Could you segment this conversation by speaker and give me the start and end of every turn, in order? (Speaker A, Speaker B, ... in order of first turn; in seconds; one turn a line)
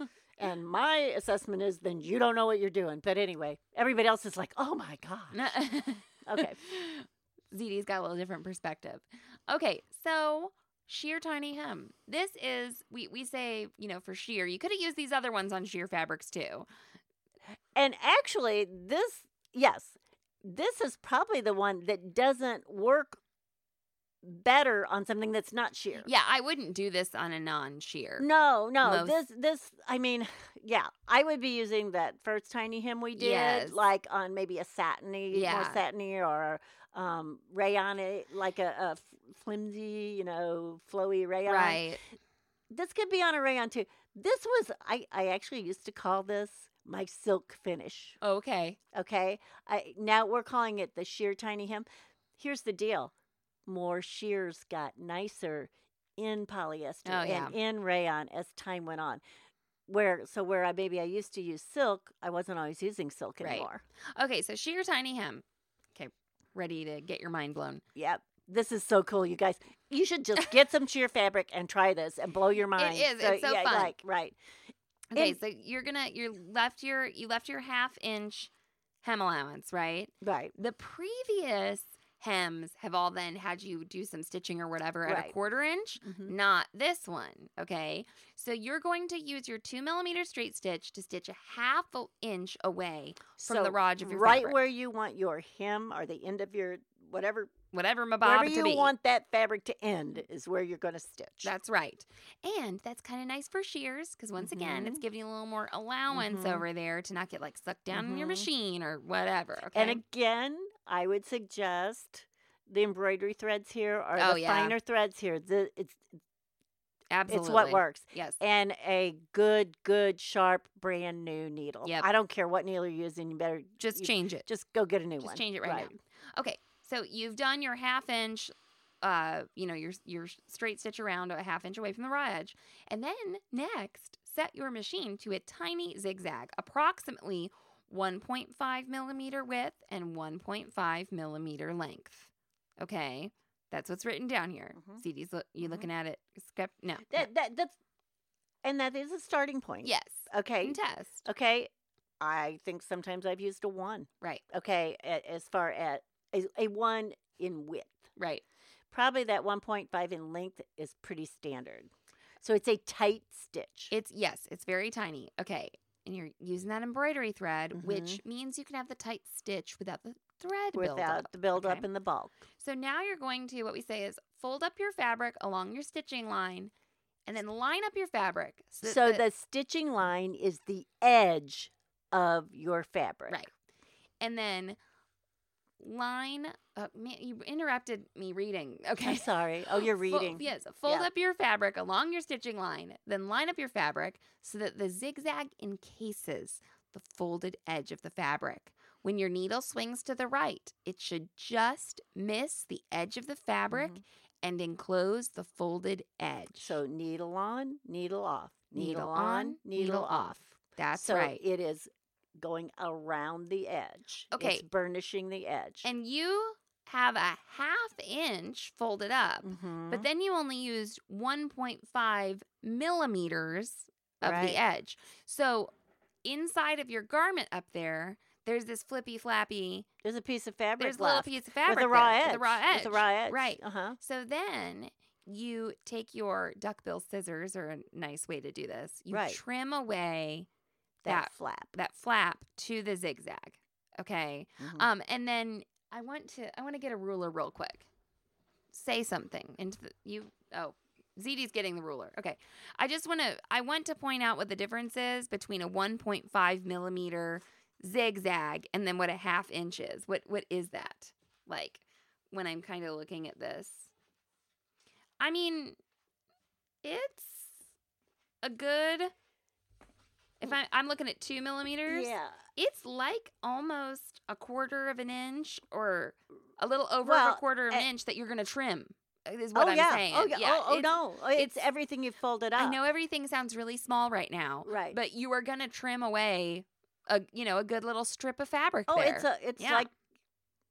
Speaker A: 0.4-5.5
Speaker B: 5.3-16.7
Speaker A: 6.2-6.6
Speaker A: 17.7-23.2
Speaker A: 24.2-26.1
Speaker B: 26.0-28.3
Speaker A: 28.2-41.9
Speaker B: 28.8-29.1
Speaker B: 33.2-33.8
Speaker B: 35.3-35.8
Speaker B: 41.5-42.0
Speaker A: 42.7-48.2
Speaker B: 48.2-48.8
Speaker A: 48.9-51.9
Speaker A: 52.4-53.1
Speaker A: 53.7-59.2
Speaker B: 57.1-57.5
Speaker A: 59.9-63.8
Speaker B: 63.4-65.4
Speaker B: 66.0-67.8
Speaker A: 68.0-74.4
Speaker B: 72.8-74.0
Speaker B: 75.1-78.5
Speaker A: 75.1-75.4
Speaker B: 79.0-94.6
Speaker A: 80.2-80.5
Speaker A: 85.0-85.3
Speaker A: 86.0-86.3
Speaker A: 93.4-97.5
Speaker B: 97.7-98.9
Speaker A: 98.2-101.5
Speaker B: 101.4-110.0
Speaker A: 104.4-105.0
Speaker A: 106.1-106.7
Speaker A: 107.9-108.5
Speaker A: 109.7-116.0
Speaker B: 114.2-114.8
Speaker B: 117.1-118.4
Speaker A: 117.3-125.9
Speaker B: 123.8-124.5
Speaker B: 125.2-147.3
Speaker A: 144.8-145.0
Speaker A: 145.6-145.9
Speaker A: 147.1-147.8
Speaker A: 148.6-158.1
Speaker B: 149.8-151.2
Speaker B: 158.2-158.4
Speaker A: 158.9-161.9
Speaker A: 162.4-163.9
Speaker B: 163.9-171.9
Speaker A: 167.7-168.2
Speaker A: 170.7-172.4
Speaker B: 172.6-176.7
Speaker B: 177.3-179.2
Speaker A: 178.8-183.4
Speaker B: 184.2-184.8
Speaker B: 185.8-189.3
Speaker A: 189.0-191.1
Speaker B: 190.1-206.8
Speaker A: 203.7-204.0
Speaker A: 206.6-215.9
Speaker B: 208.7-211.4
Speaker B: 214.3-214.6
Speaker B: 215.8-225.7
Speaker A: 219.4-220.1
Speaker A: 224.2-224.6
Speaker B: 226.2-229.9
Speaker A: 230.0-234.0
Speaker B: 230.8-240.5
Speaker A: 239.1-239.4
Speaker A: 241.0-241.7
Speaker B: 241.1-247.9
Speaker A: 244.6-244.9
Speaker B: 248.7-263.9
Speaker B: 265.2-265.8
Speaker B: 266.8-267.6
Speaker B: 268.4-269.1
Speaker B: 270.4-281.5
Speaker A: 271.9-272.4
Speaker A: 277.0-277.9
Speaker A: 279.6-282.8
Speaker B: 282.6-289.9
Speaker A: 284.6-285.0
Speaker A: 288.9-289.9